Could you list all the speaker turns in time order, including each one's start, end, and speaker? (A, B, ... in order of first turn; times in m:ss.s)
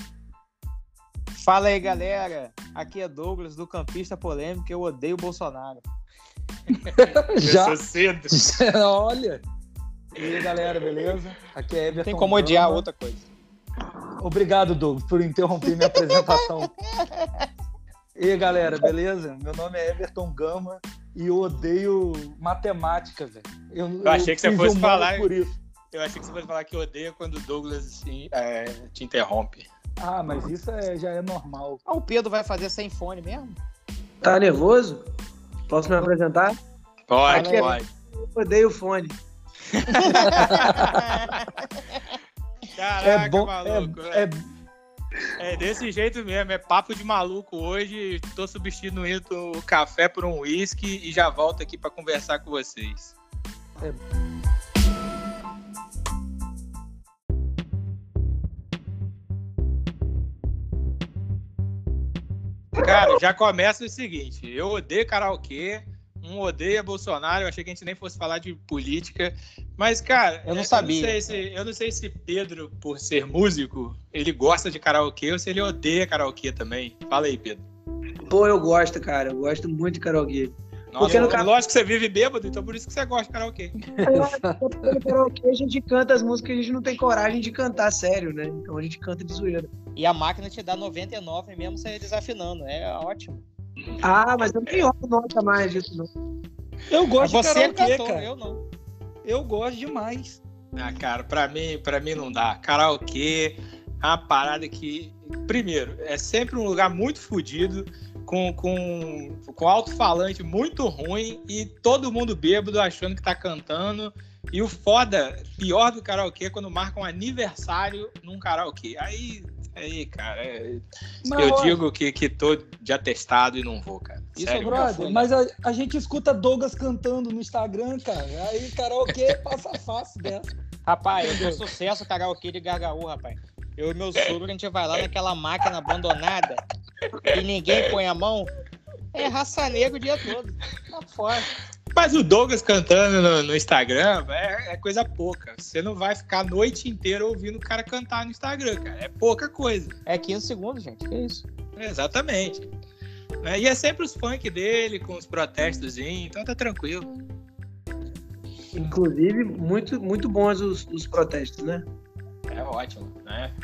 0:01.4-0:05.8 A
0:06.7-0:09.4 B
0:07.3-0:08.4 C
0:10.1-0:12.8 B
0:11.9-0:13.2 A
0:14.2-0:16.7 B
0:15.9-0:16.2 A
0:17.0-0:17.5 A
0:18.2-0:25.5 B
0:24.0-0:25.3 C
0:25.9-0:29.7 C
0:30.0-0:31.8 B
0:31.8-0:33.6 A
0:34.2-0:35.1 D
0:35.7-0:36.6 D
0:37.1-0:37.8 C
0:37.3-0:39.2 D
0:37.3-0:37.8 A
0:39.7-0:41.0 C
0:39.9-0:42.2 A
0:42.8-0:44.3 C
0:43.0-0:44.4 B
0:45.4-0:53.1 C
1:02.8-1:17.6 C
1:10.4-1:11.2 A
1:18.3-1:21.5 D
1:20.9-1:23.8 C
1:24.0-1:25.1 B
1:24.0-1:29.7 D
1:30.0-1:33.4 A
1:34.0-1:36.1 D
1:36.9-1:38.3 B
1:37.2-1:38.6 A
1:39.2-1:40.4 B
1:40.7-2:00.8 C
2:01.2-2:01.8 B
2:01.3-2:04.9 C
2:04.4-2:05.3 A
2:04.6-2:10.5 B
2:10.8-2:16.6 A
2:11.2-2:11.6 B
2:17.3-2:18.5 A
2:19.1-2:21.5 A
2:21.9-2:30.0 C
2:30.0-2:31.4 A
2:31.8-2:32.7 C
2:33.4-2:37.1 C
2:38.7-2:41.8 D
2:42.5-2:43.5 C